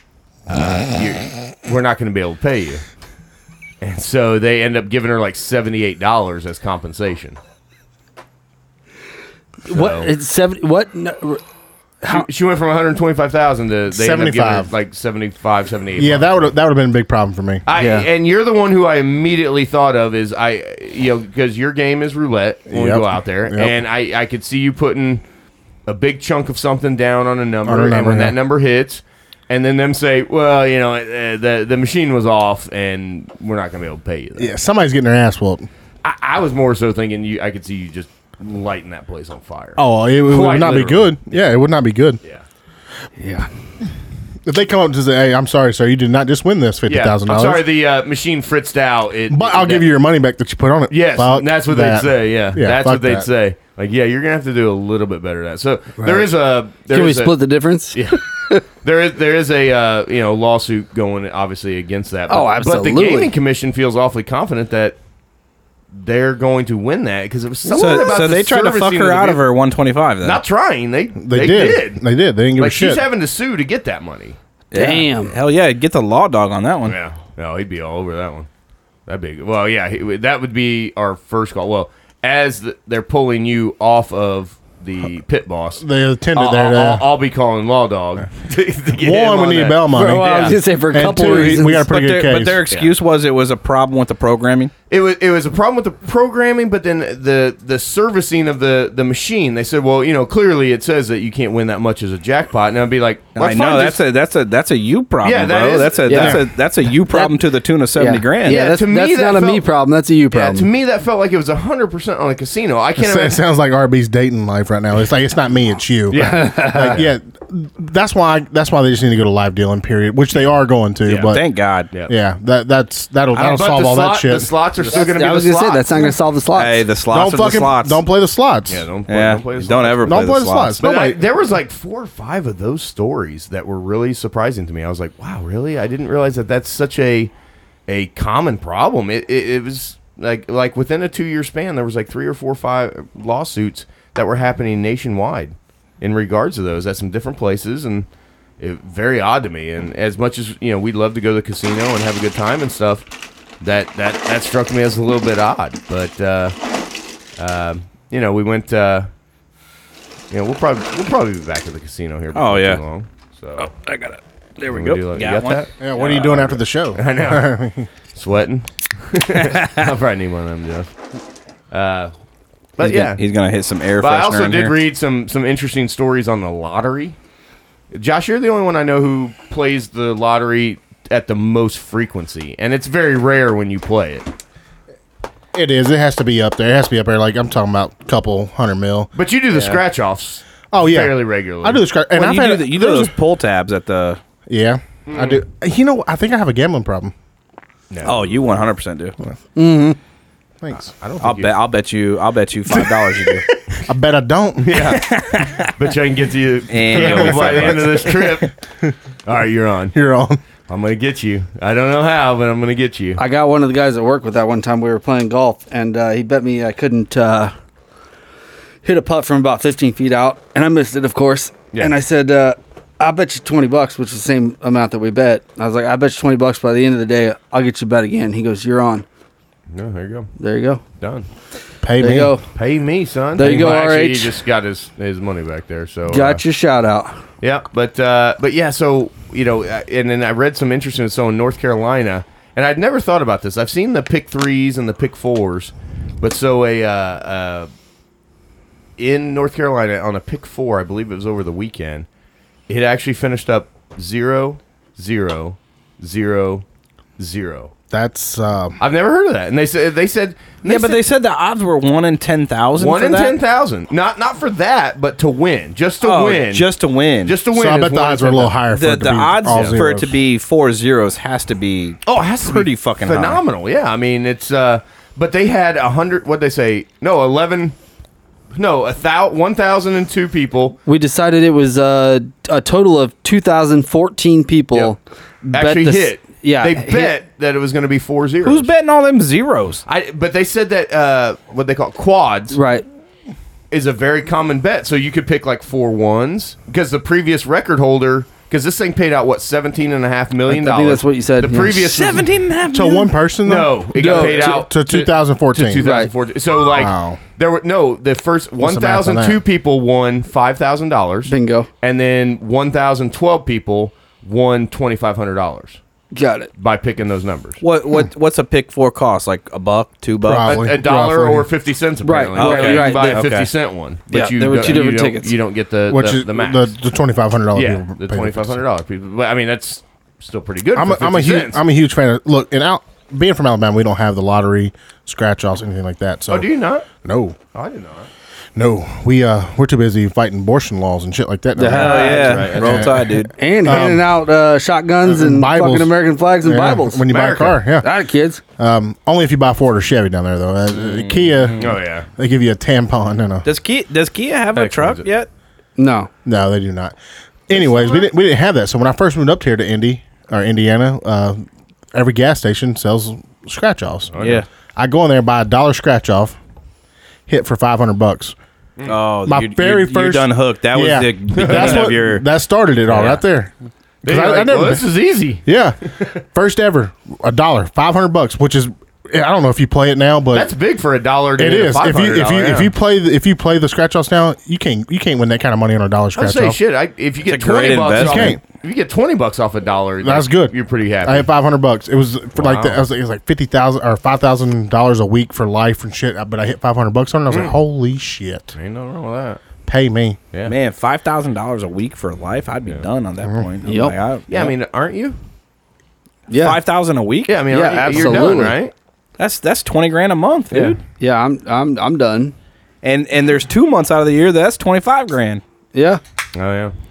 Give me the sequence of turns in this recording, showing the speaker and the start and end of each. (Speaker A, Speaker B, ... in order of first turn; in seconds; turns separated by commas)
Speaker A: 0.5-2.8, Speaker A: 3.8-7.4, Speaker B: 9.7-11.4, Speaker A: 9.7-10.1, Speaker A: 12.1-16.5, Speaker C: 13.9-14.7, Speaker C: 16.0-17.6, Speaker A: 17.7-25.2, Speaker B: 17.8-18.1, Speaker C: 22.7-23.7, Speaker A: 25.9-34.5, Speaker C: 27.7-28.4, Speaker C: 34.4-35.7, Speaker A: 36.0-41.3, Speaker C: 39.8-42.2, Speaker B: 43.2-43.5, Speaker C: 44.5-47.6, Speaker A: 46.9-49.9, Speaker C: 49.3-53.3, Speaker A: 50.9-57.4, Speaker B: 56.9-58.6, Speaker A: 57.9-58.2, Speaker A: 58.8-65.0, Speaker B: 62.3-63.3, Speaker A: 66.0-69.4, Speaker D: 67.7-70.4, Speaker A: 70.2-72.0, Speaker C: 71.2-73.0, Speaker A: 72.6-74.4, Speaker D: 74.7-77.0, Speaker B: 74.7-75.3, Speaker A: 76.8-78.5, Speaker A: 79.1-85.8, Speaker C: 85.8-87.0, Speaker A: 86.3-90.6, Speaker C: 89.0-92.6, Speaker B: 89.9-91.8, Speaker D: 91.4-94.7, Speaker A: 94.9-104.0, Speaker D: 103.4-108.6, Speaker A: 105.2-106.4, Speaker B: 106.1-107.4, Speaker B: 108.0-110.7, Speaker A: 108.5-109.7, Speaker A: 110.3-113.4, Speaker C: 113.0-121.4, Speaker A: 116.1-117.1, Speaker B: 116.2-117.0, Speaker D: 121.1-121.9, Speaker C: 122.1-124.5, Speaker A: 123.3-126.1, Speaker B: 124.9-126.8, Speaker D: 126.5-128.0, Speaker C: 127.1-128.9, Speaker A: 128.7-130.2, Speaker D: 129.1-130.8, Speaker C: 130.0-131.2, Speaker A: 130.8-137.3, Speaker A: 137.9-148.1, Speaker A: 148.6-153.1, Speaker A: 153.6-156.6, Speaker A: 157.4-159.1, Speaker A: 160.3-163.7, Speaker D: 162.3-162.8, Speaker D: 163.6-166.5, Speaker A: 164.7-167.5, Speaker C: 165.8-167.9, Speaker A: 168.1-170.9, Speaker D: 169.3-169.9, Speaker A: 171.7-172.1, Speaker A: 172.8-173.2, Speaker D: 172.8-174.8, Speaker A: 174.0-177.2, Speaker A: 177.9-184.3, Speaker C: 185.5-189.1, Speaker A: 189.2-191.8, Speaker C: 190.7-193.1, Speaker D: 192.1-194.2, Speaker C: 194.5-197.1, Speaker A: 195.1-195.4, Speaker A: 197.9-198.6, Speaker D: 198.1-199.2, Speaker B: 199.6-200.0, Speaker C: 200.6-200.9, Speaker A: 200.9-201.6, Speaker D: 201.2-203.4, Speaker C: 203.9-204.9, Speaker A: 204.6-208.5, Speaker D: 204.8-205.7, Speaker D: 206.7-208.4, Speaker C: 206.9-207.8, Speaker A: 209.3-209.9, Speaker C: 209.9-210.4, Speaker A: 210.7-213.2, Speaker B: 213.2-217.5, Speaker B: 218.8-229.1, Speaker A: 229.7-230.3, Speaker B: 230.4-230.8, Speaker A: 231.0-231.3, Speaker C: 231.8-232.3, Speaker B: 232.0-232.5, Speaker A: 232.6-236.4, Speaker B: 233.3-234.4, Speaker B: 236.1-237.2, Speaker A: 237.4-247.7, Speaker A: 249.0-252.1, Speaker A: 252.7-256.6, Speaker A: 257.2-257.7, Speaker C: 257.9-258.8, Speaker A: 258.8-261.0, Speaker D: 260.6-263.4, Speaker A: 262.8-266.7, Speaker D: 266.0-267.4, Speaker A: 267.2-268.5, Speaker C: 267.5-270.2, Speaker D: 268.7-273.4, Speaker A: 269.5-269.8, Speaker A: 272.1-277.8, Speaker A: 278.6-280.8, Speaker B: 280.9-287.1, Speaker A: 285.5-288.7, Speaker D: 288.4-289.8, Speaker A: 289.9-292.6, Speaker B: 292.5-292.9, Speaker A: 293.7-302.3, Speaker B: 300.5-302.0, Speaker D: 301.7-303.1, Speaker C: 302.7-305.9, Speaker A: 303.4-315.8, Speaker B: 303.9-304.6, Speaker B: 305.8-306.1, Speaker C: 306.7-307.2, Speaker C: 308.6-309.4, Speaker B: 311.3-311.7, Speaker B: 316.1-316.5, Speaker A: 316.6-317.6, Speaker D: 317.6-320.6, Speaker C: 320.2-321.5, Speaker A: 320.4-326.7, Speaker B: 322.0-323.2, Speaker D: 322.4-323.5, Speaker B: 324.1-325.3, Speaker C: 325.9-328.6, Speaker A: 327.6-331.6, Speaker C: 330.8-337.4, Speaker A: 336.3-336.9, Speaker A: 337.5-338.1, Speaker C: 338.6-344.1, Speaker B: 341.6-342.8, Speaker D: 341.7-343.3, Speaker A: 342.0-342.9, Speaker B: 343.4-347.1, Speaker C: 345.0-347.9, Speaker A: 347.1-347.6, Speaker B: 347.8-348.4, Speaker C: 348.6-353.5, Speaker D: 350.8-351.8, Speaker A: 351.6-352.1, Speaker D: 353.4-355.3, Speaker A: 354.5-355.1, Speaker B: 355.8-356.1, Speaker C: 356.2-357.0, Speaker C: 357.5-361.4, Speaker A: 357.5-358.1, Speaker C: 361.9-364.1, Speaker A: 364.1-364.4, Speaker D: 364.2-364.5, Speaker C: 364.8-366.4, Speaker C: 367.3-368.4, Speaker D: 368.9-372.2, Speaker C: 369.3-373.5, Speaker A: 371.3-371.9, Speaker D: 372.9-373.2, Speaker C: 374.0-374.9, Speaker A: 374.1-375.4, Speaker C: 375.4-375.8, Speaker C: 376.3-380.5, Speaker A: 380.3-382.7, Speaker C: 381.4-386.6, Speaker A: 386.2-391.3, Speaker D: 387.2-388.4, Speaker C: 387.9-388.4, Speaker C: 390.0-390.5, Speaker C: 391.1-398.5, Speaker A: 392.4-392.8, Speaker A: 397.3-397.6, Speaker A: 398.6-399.4, Speaker C: 399.7-400.2, Speaker D: 400.5-404.5, Speaker B: 403.6-403.9, Speaker A: 404.3-405.2, Speaker B: 406.3-406.6, Speaker D: 406.3-407.4, Speaker A: 407.3-408.7, Speaker B: 407.5-408.6, Speaker D: 407.9-408.2, Speaker D: 409.2-410.8, Speaker A: 410.5-410.8, Speaker B: 411.0-412.3, Speaker D: 412.8-415.4, Speaker B: 415.7-416.0, Speaker A: 416.3-416.7